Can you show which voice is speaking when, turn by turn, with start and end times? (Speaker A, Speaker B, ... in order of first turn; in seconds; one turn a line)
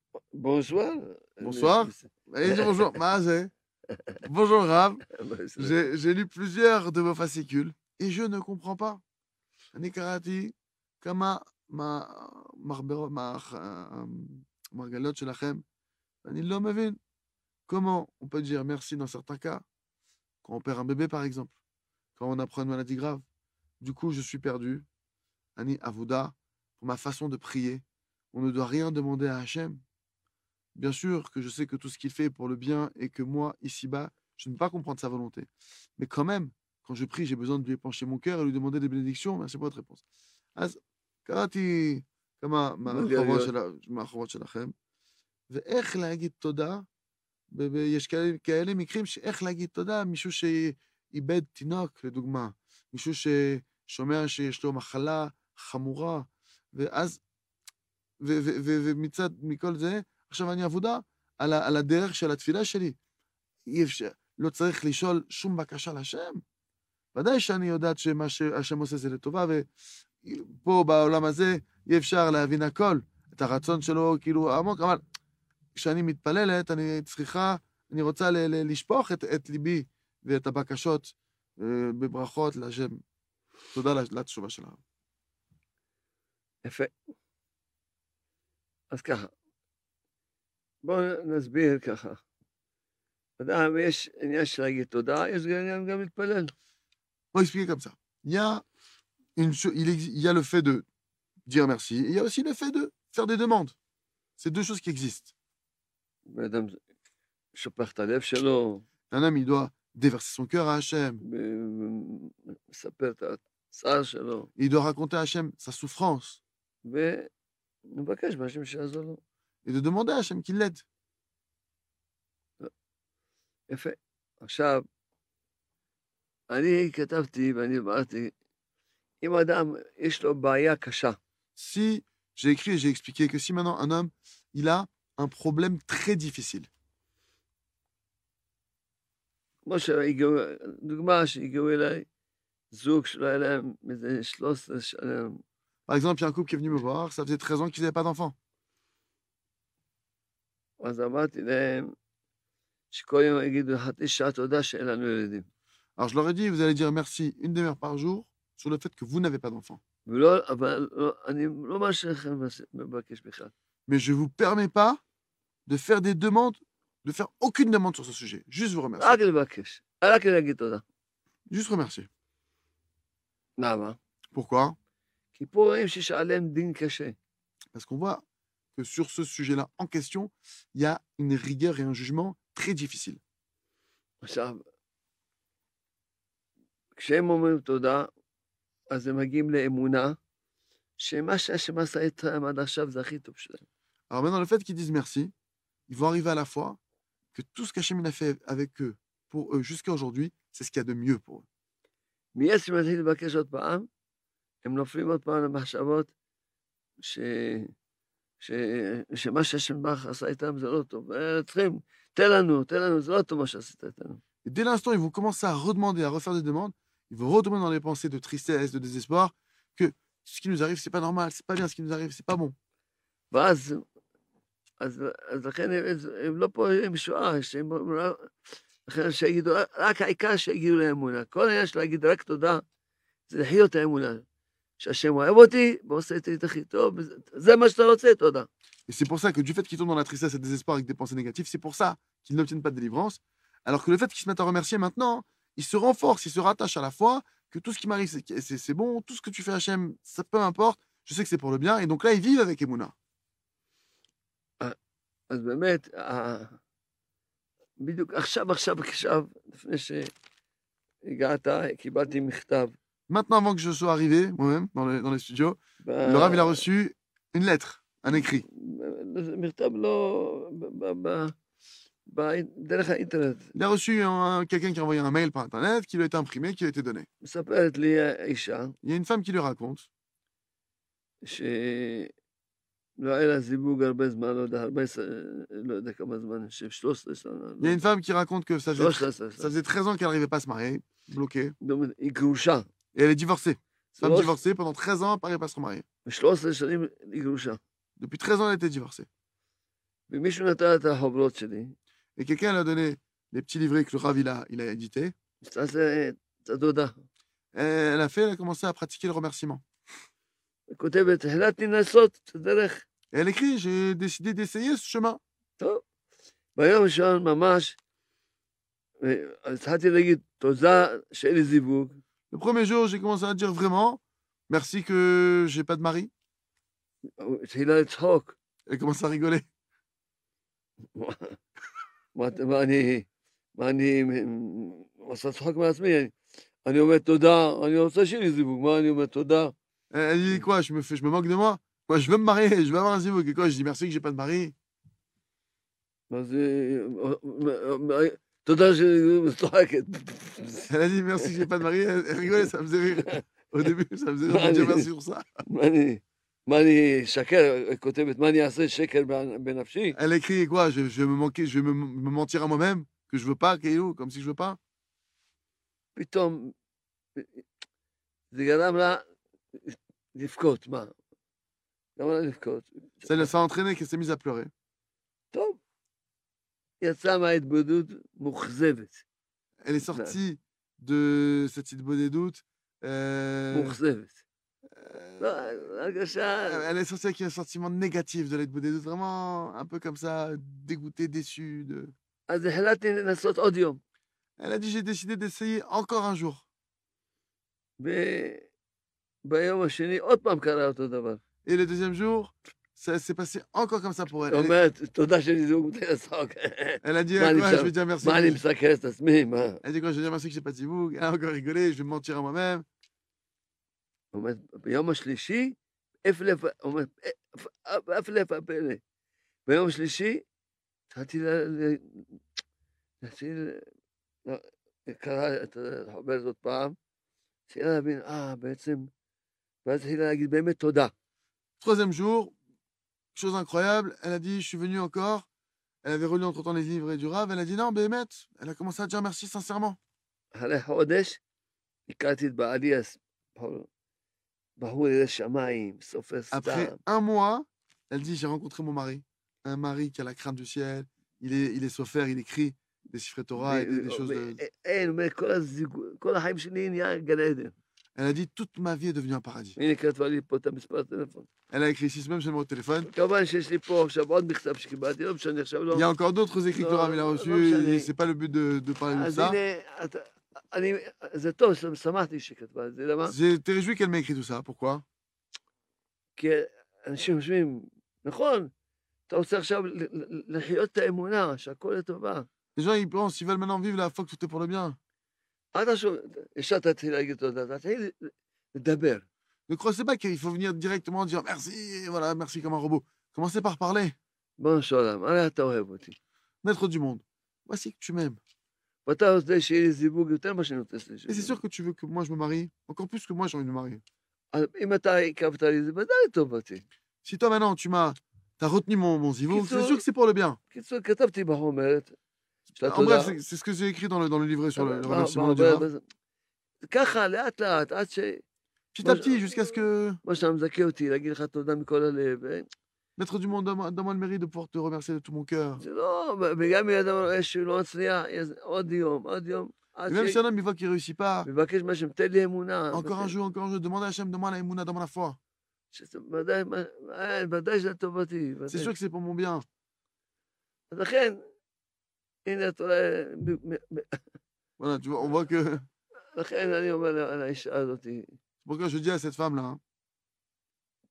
Speaker A: 0.3-3.0
Speaker B: 1.4-3.5
Speaker B: 4.2-5.0
Speaker A: 5.1-5.8
Speaker B: 5.6-9.0
Speaker B: 9.7-15.6
Speaker B: 16.2-17.0
Speaker B: 17.7-19.6
Speaker B: 20.4-21.6
Speaker B: 22.1-23.2
Speaker B: 23.8-24.9
Speaker B: 25.6-29.8
Speaker B: 30.7-40.0
Speaker B: 40.5-44.7
Speaker A: 42.8-43.5
Speaker B: 45.5-46.9
Speaker B: 47.5-57.2
Speaker B: 58.2-63.0
Speaker B: 63.6-66.4
Speaker B: 67.1-69.7
Speaker B: 70.2-75.0
Speaker B: 75.7-83.0
Speaker B: 83.7-84.8
Speaker A: 86.6-86.9
Speaker A: 88.9-89.3
Speaker A: 90.8-92.2
Speaker A: 93.4-96.5
Speaker B: 97.3-98.6
Speaker B: 99.3-100.8
Speaker B: 101.5-103.7
Speaker B: 104.4-105.3
Speaker A: 106.3-106.8
Speaker A: 107.5-108.8
Speaker B: 109.1-111.2
Speaker A: 111.2-114.5
Speaker B: 114.6-116.4
Speaker A: 116.8-117.3
Speaker A: 117.9-119.2
Speaker B: 119.6-120.8
Speaker A: 123.7-124.8
Speaker A: 126.5-128.3
Speaker A: 129.2-131.2
Speaker B: 131.6-136.7
Speaker A: 139.7-142.1
Speaker A: 142.7-145.4
Speaker B: 145.9-148.3
Speaker A: 150.8-151.9
Speaker A: 152.9-155.5
Speaker B: 156.0-159.8
Speaker A: 160.1-163.5
Speaker B: 163.9-165.0
Speaker B: 165.7-169.2
Speaker A: 169.0-170.8
Speaker B: 171.5-172.1
Speaker A: 173.6-174.0
Speaker B: 174.3-174.8
Speaker A: 175.3-177.2
Speaker B: 177.7-178.2
Speaker B: 178.8-183.2
Speaker A: 184.2-184.6
Speaker A: 187.0-188.1
Speaker A: 188.9-190.2
Speaker A: 191.0-193.6
Speaker B: 194.1-195.3
Speaker B: 195.9-196.8
Speaker B: 197.3-201.4
Speaker A: 202.3-203.9
Speaker A: 204.6-206.1
Speaker A: 207.0-207.7
Speaker A: 208.4-214.2
Speaker B: 214.4-222.5
Speaker A: 223.3-223.8
Speaker A: 224.8-228.3
Speaker A: 228.9-232.6
Speaker A: 233.3-234.2
Speaker A: 234.8-238.5
Speaker B: 238.9-252.9
Speaker A: 255.3-256.6
Speaker A: 257.8-260.1
Speaker A: 261.0-262.7
Speaker B: 263.1-268.4
Speaker A: 265.8-266.6
Speaker A: 268.2-271.3
Speaker A: 272.1-273.5
Speaker B: 273.5-277.1
Speaker A: 277.2-278.8
Speaker B: 278.8-279.9
Speaker A: 281.2-282.1
Speaker A: 283.0-287.8
Speaker B: 287.6-291.5
Speaker A: 288.7-289.5
Speaker A: 291.6-292.7
Speaker B: 292.9-295.9
Speaker A: 293.9-294.4
Speaker A: 296.1-297.6
Speaker B: 298.0-299.1
Speaker A: 300.1-301.7
Speaker B: 302.2-305.1
Speaker A: 305.4-307.0
Speaker B: 307.5-309.6
Speaker A: 310.7-312.8
Speaker B: 313.1-315.2
Speaker A: 316.6-317.8
Speaker A: 319.0-322.0
Speaker B: 322.3-326.1
Speaker A: 327.2-328.3
Speaker B: 328.7-329.4
Speaker A: 330.9-331.4
Speaker A: 332.1-336.1
Speaker A: 336.6-339.5
Speaker B: 339.9-344.5
Speaker A: 346.1-350.7
Speaker B: 350.7-355.3
Speaker A: 354.3-354.9
Speaker A: 355.5-360.0
Speaker B: 359.9-364.6
Speaker A: 365.9-366.5
Speaker A: 367.1-367.4
Speaker A: 368.3-369.0
Speaker A: 369.6-370.9
Speaker A: 372.0-373.3
Speaker B: 373.1-374.5
Speaker A: 375.3-375.6
Speaker A: 376.8-379.0
Speaker B: 379.6-383.8
Speaker A: 379.9-380.1
Speaker A: 383.5-384.2
Speaker B: 384.8-391.9
Speaker A: 385.2-386.6
Speaker A: 392.3-393.8
Speaker B: 394.4-396.4
Speaker A: 397.8-398.5
Speaker A: 399.2-401.2
Speaker B: 401.4-404.5
Speaker A: 404.3-409.6
Speaker B: 406.8-408.4
Speaker B: 409.6-412.6
Speaker A: 414.1-418.8
Speaker A: 419.4-420.2
Speaker A: 420.9-422.2
Speaker A: 423.0-423.6
Speaker A: 424.2-426.8
Speaker A: 427.5-428.9
Speaker A: 429.6-430.9
Speaker B: 431.6-432.3
Speaker B: 433.1-435.2
Speaker B: 435.8-439.8
Speaker A: 440.3-441.2
Speaker A: 441.9-443.7
Speaker A: 444.6-446.8
Speaker B: 446.3-454.4
Speaker A: 453.4-457.5
Speaker B: 457.9-459.6
Speaker A: 459.6-461.3
Speaker B: 461.5-462.9
Speaker A: 462.9-465.9
Speaker B: 465.7-469.4
Speaker A: 466.6-467.9
Speaker A: 468.9-473.1
Speaker B: 473.1-474.8
Speaker A: 476.1-478.5
Speaker A: 479.1-482.3
Speaker B: 482.6-484.8
Speaker A: 485.5-489.0
Speaker B: 489.5-493.9
Speaker A: 494.4-496.0
Speaker B: 496.4-498.2
Speaker A: 498.9-501.4
Speaker B: 501.1-503.8
Speaker A: 504.3-506.6
Speaker B: 507.0-510.4
Speaker A: 509.3-509.8
Speaker A: 510.5-511.9
Speaker B: 512.5-515.7
Speaker A: 512.6-513.1
Speaker A: 514.5-515.8
Speaker A: 516.7-518.2
Speaker B: 518.7-520.0
Speaker A: 518.8-522.5
Speaker B: 523.0-525.6
Speaker A: 525.6-530.2
Speaker B: 529.9-531.3
Speaker A: 531.2-533.1
Speaker B: 532.7-535.2
Speaker A: 535.7-538.7
Speaker B: 538.5-539.4
Speaker A: 540.7-541.2
Speaker A: 542.2-544.0
Speaker B: 544.6-545.6
Speaker A: 546.1-548.1
Speaker B: 548.4-549.6